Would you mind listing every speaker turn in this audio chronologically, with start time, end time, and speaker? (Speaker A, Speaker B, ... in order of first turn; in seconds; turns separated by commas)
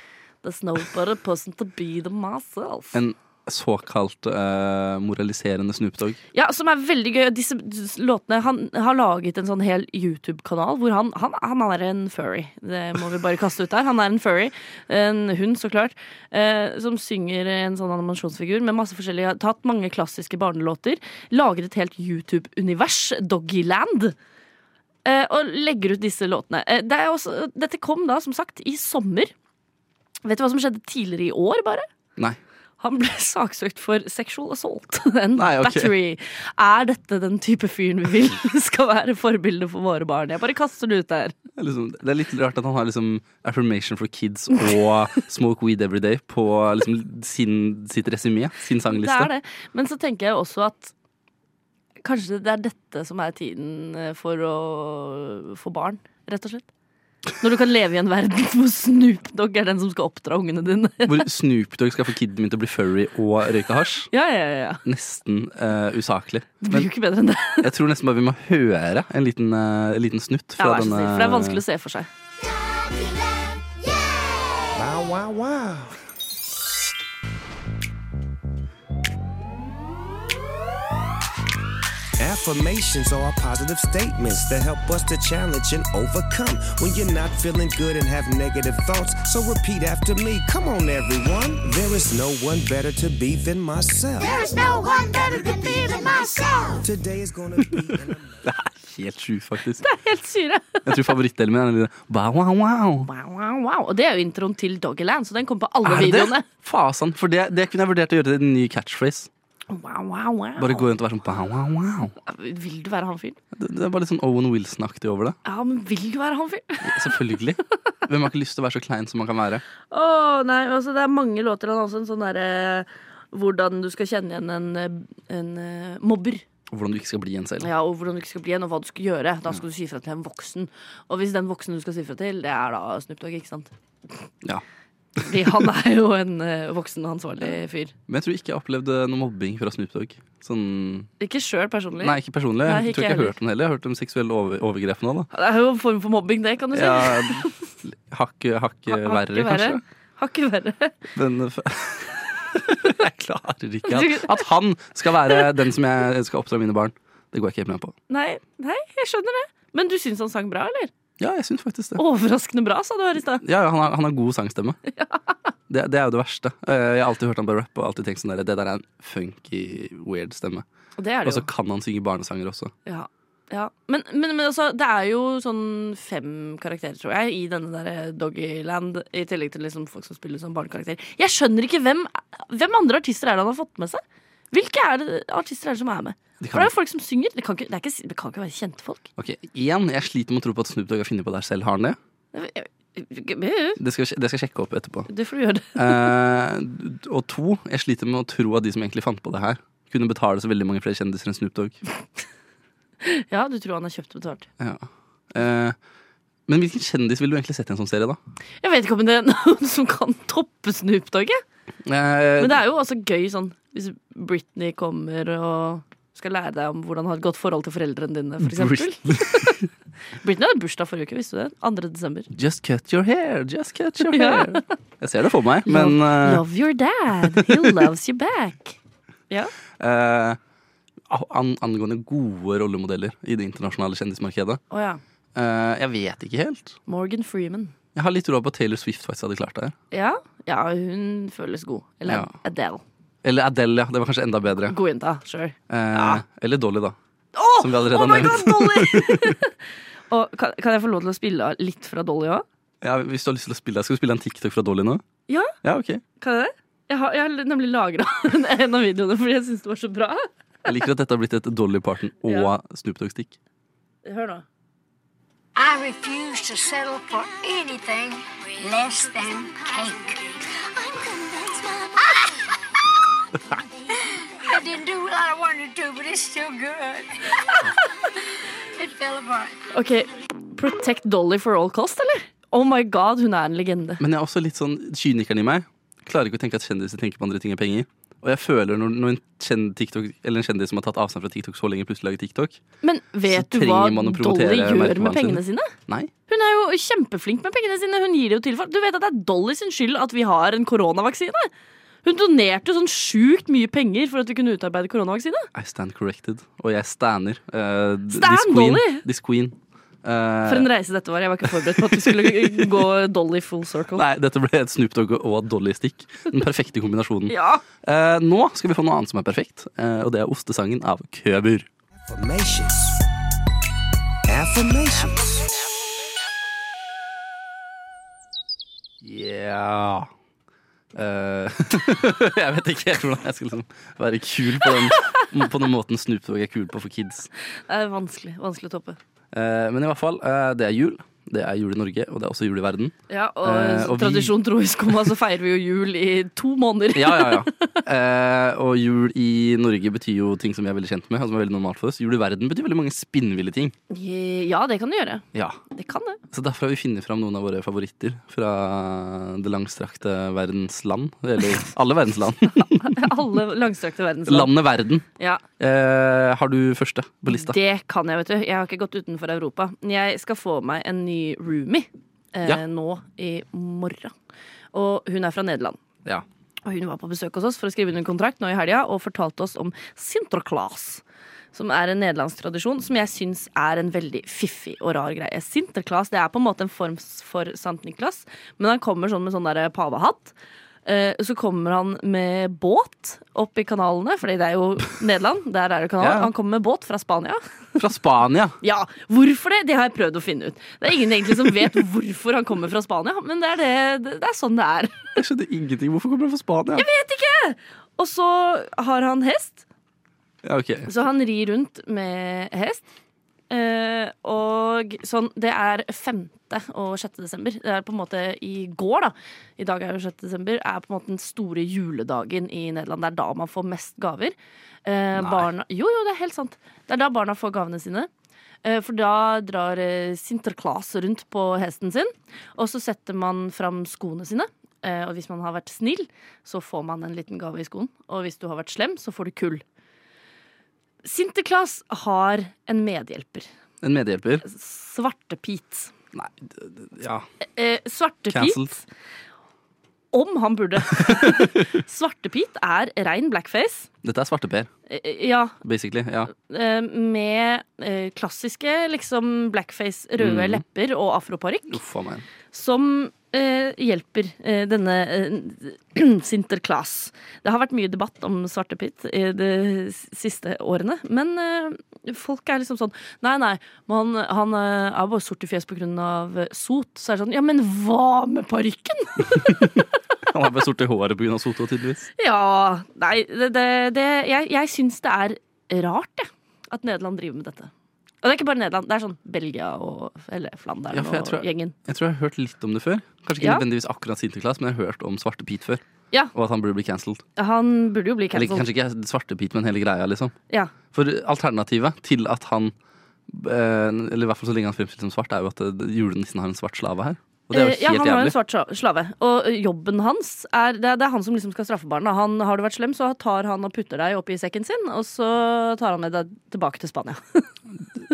Speaker A: 0.4-3.0, Speaker B: 2.9-6.2, Speaker A: 6.3-24.1, Speaker A: 25.0-29.3, Speaker A: 30.2-31.9, Speaker A: 32.8-41.3, Speaker B: 35.4-35.9, Speaker B: 41.6-49.3, Speaker A: 48.9-50.9, Speaker A: 52.0-56.6, Speaker A: 57.4-61.2, Speaker B: 61.0-64.1, Speaker A: 64.1-64.8, Speaker B: 64.8-66.9, Speaker A: 66.6-67.7, Speaker B: 67.6-71.6, Speaker A: 70.6-72.1, Speaker C: 74.7-75.9, Speaker C: 82.2-98.5, Speaker B: 97.9-99.8, Speaker A: 99.8-101.2, Speaker B: 100.8-103.1, Speaker A: 103.0-106.4, Speaker B: 105.8-109.3, Speaker A: 109.7-110.9, Speaker B: 110.6-112.1, Speaker A: 112.2-113.4, Speaker B: 113.5-115.4, Speaker A: 115.4-117.2, Speaker B: 116.8-119.6, Speaker A: 119.9-126.4, Speaker B: 126.7-127.7, Speaker A: 127.6-133.7, Speaker A: 135.2-137.9, Speaker B: 138.1-141.1, Speaker A: 141.2-143.3, Speaker B: 142.0-145.3, Speaker A: 145.3-147.6, Speaker B: 146.7-149.8, Speaker A: 148.9-151.0, Speaker B: 151.1-157.9, Speaker A: 153.8-154.4, Speaker A: 158.1-160.9, Speaker B: 161.2-162.0, Speaker A: 162.0-163.4, Speaker B: 163.4-164.8, Speaker B: 165.7-170.6, Speaker A: 171.0-171.5, Speaker B: 171.2-172.7, Speaker A: 172.8-189.1, Speaker B: 186.4-186.7, Speaker B: 189.2-192.0, Speaker A: 192.3-193.8, Speaker B: 193.8-195.1, Speaker A: 195.1-196.1, Speaker B: 195.7-201.8, Speaker A: 203.0-204.5, Speaker B: 204.6-205.7, Speaker B: 206.5-208.2, Speaker A: 208.6-211.4, Speaker B: 211.8-212.6, Speaker A: 212.4-219.6, Speaker B: 218.4-219.7, Speaker A: 220.2-222.3, Speaker B: 222.3-226.4, Speaker A: 224.0-224.7, Speaker A: 225.7-228.8, Speaker B: 227.2-227.8, Speaker B: 229.8-230.4, Speaker B: 231.1-234.6, Speaker A: 234.7-235.0, Speaker B: 235.3-236.8, Speaker A: 236.9-237.7, Speaker B: 237.9-239.7, Speaker A: 239.9-242.8, Speaker B: 243.2-244.8, Speaker A: 244.7-246.2, Speaker B: 245.7-246.9, Speaker A: 247.3-249.5, Speaker B: 247.6-249.4, Speaker A: 250.1-252.4, Speaker B: 252.8-255.0, Speaker A: 255.3-255.5, Speaker B: 255.6-256.0, Speaker A: 256.2-260.7, Speaker B: 260.6-263.4, Speaker A: 262.2-262.5, Speaker A: 264.0-264.4, Speaker D: 265.6-270.2, Speaker D: 270.8-272.1, Speaker D: 274.4-277.2, Speaker D: 278.8-279.6, Speaker A: 279.7-284.0, Speaker B: 284.0-292.6, Speaker A: 292.8-295.7, Speaker B: 293.3-296.1, Speaker A: 296.3-301.5, Speaker A: 302.0-305.5, Speaker B: 305.5-310.7, Speaker A: 308.1-309.0, Speaker A: 310.4-314.0, Speaker B: 311.5-312.7, Speaker B: 313.9-321.6, Speaker A: 317.3-317.6, Speaker C: 322.0-323.0, Speaker C: 324.3-325.6, Speaker B: 329.0-330.1, Speaker B: 330.9-337.3, Speaker A: 337.7-339.0, Speaker B: 339.3-344.3, Speaker A: 343.1-347.8, Speaker B: 346.9-353.7, Speaker A: 353.9-356.2, Speaker B: 356.3-363.1, Speaker A: 362.8-364.5, Speaker B: 364.3-365.1, Speaker B: 365.6-367.6, Speaker A: 367.3-374.1, Speaker A: 374.7-375.8, Speaker A: 376.6-381.0, Speaker A: 381.5-390.3, Speaker A: 390.8-397.4, Speaker B: 396.0-396.3, Speaker B: 397.8-398.6, Speaker A: 398.6-405.2, Speaker B: 405.2-406.9, Speaker A: 406.8-409.6, Speaker B: 410.4-410.9, Speaker A: 410.9-412.9, Speaker A: 413.5-428.1, Speaker B: 425.1-425.5, Speaker A: 428.6-439.6, Speaker A: 441.0-443.5, Speaker B: 443.8-444.4, Speaker A: 444.4-445.9, Speaker B: 446.1-447.2, Speaker A: 447.6-448.8, Speaker B: 448.3-448.7, Speaker A: 450.1-453.9, Speaker B: 450.9-451.6, Speaker B: 454.0-454.7, Speaker A: 454.9-455.6, Speaker B: 455.6-456.3, Speaker A: 456.3-461.8, Speaker B: 460.2-460.6, Speaker B: 461.7-462.2, Speaker A: 462.5-479.9, Speaker B: 479.3-482.1, Speaker A: 482.2-487.7, Speaker A: 488.2-491.7, Speaker B: 490.9-495.8, Speaker B: 496.3-497.2, Speaker A: 497.4-498.7, Speaker B: 498.3-500.3, Speaker B: 500.9-502.7, Speaker B: 503.3-508.3, Speaker A: 507.5-517.5